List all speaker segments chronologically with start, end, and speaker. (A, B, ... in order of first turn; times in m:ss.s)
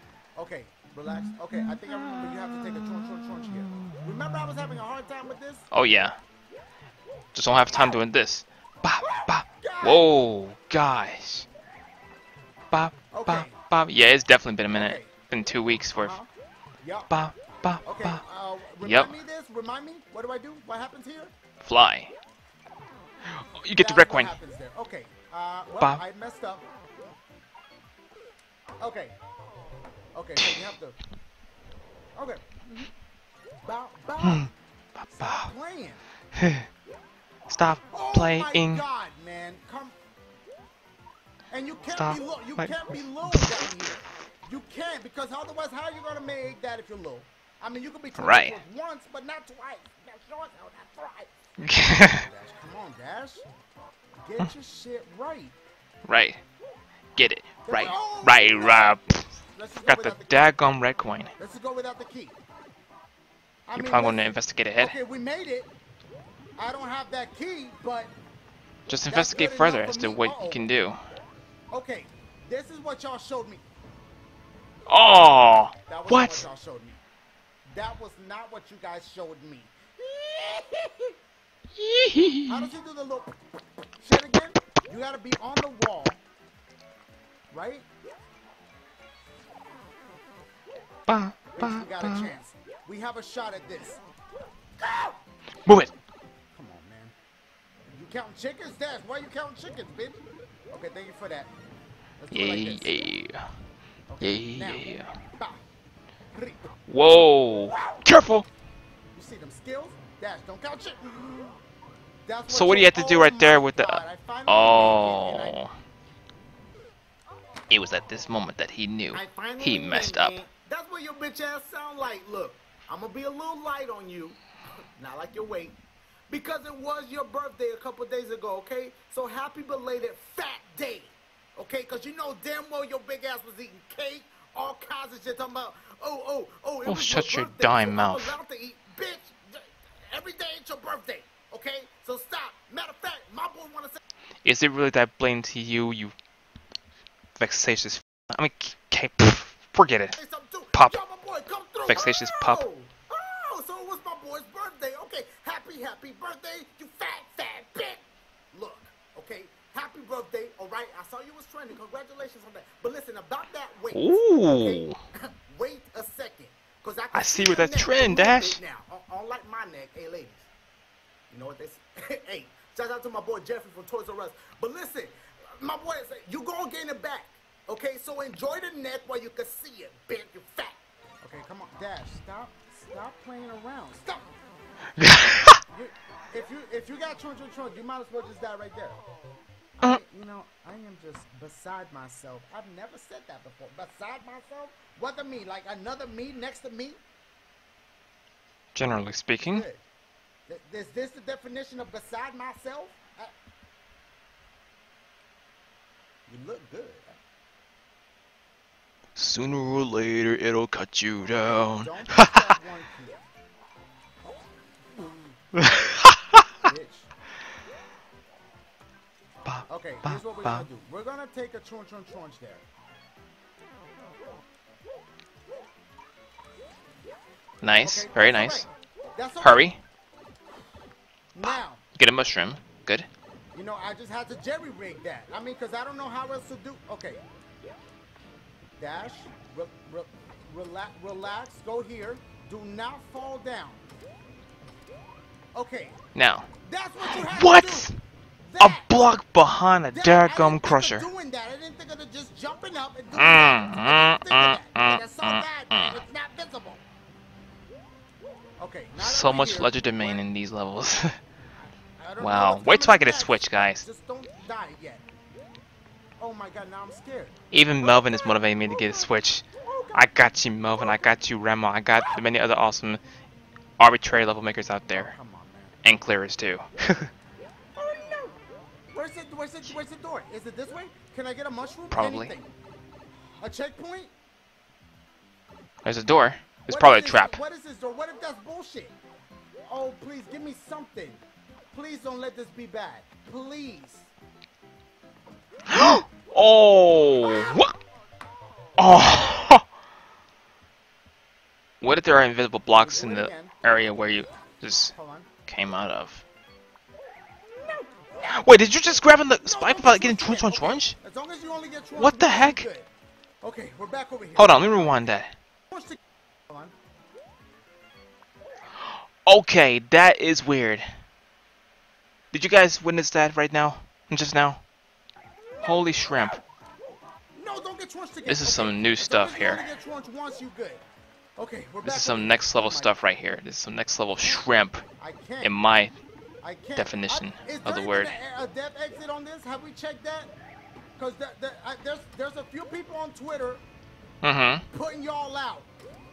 0:00.3-0:05.7 A
0:05.7-0:06.2 B
0:07.3-0:11.4 B
0:07.7-0:08.0 A
0:09.0-0:10.1 A
0:12.7-0:16.2 B
0:13.1-0:13.6 A
0:14.7-0:15.1 A
0:15.9-0:16.3 A
0:16.8-0:17.1 A
0:17.1-0:18.2 B
0:17.8-0:21.3 A
0:18.8-0:19.2 B
0:21.6-0:22.1 B
0:23.3-0:24.3 B
0:23.8-0:26.7 A
0:28.8-0:29.2 A
0:30.1-0:31.0 A
0:30.4-0:30.7 B
0:32.1-0:32.9 A
0:33.6-0:34.5 A
0:34.2-0:35.5 B
0:35.1-0:36.0 A
0:36.3-0:36.7 B
0:37.5-0:38.8 B
0:37.9-0:40.0 A
0:41.5-0:53.4 A
0:41.9-0:43.6 B
0:48.2-0:48.6 B
0:51.6-0:52.2 B
0:54.2-0:55.6 A
0:56.0-0:56.4 B
0:57.2-0:59.3 B
0:57.6-1:00.5 A
0:59.8-1:01.3 B
1:01.4-1:02.4 A
1:03.7-1:05.7 A
1:03.7-1:05.0 B
1:06.6-1:08.1 A
1:08.9-1:11.0 B
1:09.0-1:10.6 A
1:11.7-1:13.6 A
1:14.9-1:16.4 B
1:15.9-1:17.0 A
1:17.7-1:21.2 A
1:21.7-1:22.6 B
1:22.5-1:23.4 A
1:24.0-1:26.2 A
1:27.5-1:27.9 A
1:31.1-1:32.3 B
1:31.5-1:34.0 A
1:34.8-1:35.2 A
1:35.6-1:35.9 B
1:36.5-1:37.1 A
1:37.8-1:41.5 A
1:42.2-1:43.1 A
1:42.3-1:43.5 B
1:44.1-1:45.6 A
1:44.2-1:45.1 B
1:46.3-1:46.7 A
1:46.9-1:48.5 B
1:49.1-1:51.6 A
1:52.2-1:55.6 A
1:52.5-1:55.7 B
1:57.7-2:00.4 B
1:59.1-2:05.8 A
2:06.3-2:24.0 A
2:16.8-2:18.4 B
2:24.4-2:26.1 B
2:27.4-2:30.2 B
2:30.1-2:50.5 A
2:31.8-2:32.6 B
2:43.9-2:45.0 B
2:47.1-2:48.6 B
2:51.3-3:04.3 A
3:05.0-3:05.6 B
3:05.7-3:09.0 A
3:09.8-3:17.0 A
3:18.7-3:19.6 B
3:19.4-3:19.8 A
3:20.5-3:23.3 A
3:26.3-3:27.2 A
3:29.2-3:32.5 B
3:31.3-3:33.2 A
3:35.6-3:36.2 B
3:36.6-3:37.1 A
3:39.4-3:40.6 B
3:39.7-3:42.6 A
3:47.6-3:48.7 B
3:47.8-3:49.7 A
3:49.4-3:49.8 B
3:51.3-3:51.8 A
3:51.4-3:53.1 B
3:53.5-3:57.2 A
3:58.8-4:03.8 A
4:05.5-4:07.9 A
4:06.1-4:06.5 B
4:07.0-4:08.0 B
4:08.4-4:08.9 A
4:08.6-4:11.0 B
4:09.9-4:16.8 A
4:13.1-4:16.0 B
4:18.6-4:20.2 A
4:19.0-4:21.2 B
4:22.0-4:25.0 A
4:22.2-4:23.8 B
4:26.2-4:30.1 A
4:27.5-4:33.0 B
4:30.8-4:31.1 A
4:33.8-4:35.1 B
4:34.9-4:35.8 A
4:35.8-4:37.1 B
4:37.8-4:38.4 A
4:38.9-4:42.5 A
4:41.9-4:42.3 B
4:43.4-4:44.1 A
4:45.8-4:47.4 B
4:46.7-4:49.0 A
4:49.7-4:54.1 A
4:55.7-4:57.8 B
4:57.2-4:57.6 A
4:58.8-4:59.6 B
5:01.8-5:04.9 B
5:02.7-5:03.6 A
5:04.8-5:05.3 A
5:05.4-5:06.2 B
5:07.5-5:08.4 A
5:08.2-5:11.0 B
5:09.4-5:12.9 A
5:12.0-5:12.7 B
5:13.4-5:15.0 A
5:14.4-5:15.3 B
5:15.7-5:16.7 A
5:18.8-5:20.9 B
5:22.3-5:24.6 B
5:25.5-5:26.4 A
5:25.6-5:26.4 B
5:27.3-5:30.8 A
5:28.2-5:29.7 B
5:31.4-5:32.9 A
5:31.8-5:34.8 B
5:35.0-5:35.6 A
5:35.4-5:36.0 B
5:36.4-5:40.3 A
5:36.8-5:38.1 B
5:41.0-5:43.6 A
5:44.2-5:44.6 B
5:44.7-5:45.7 A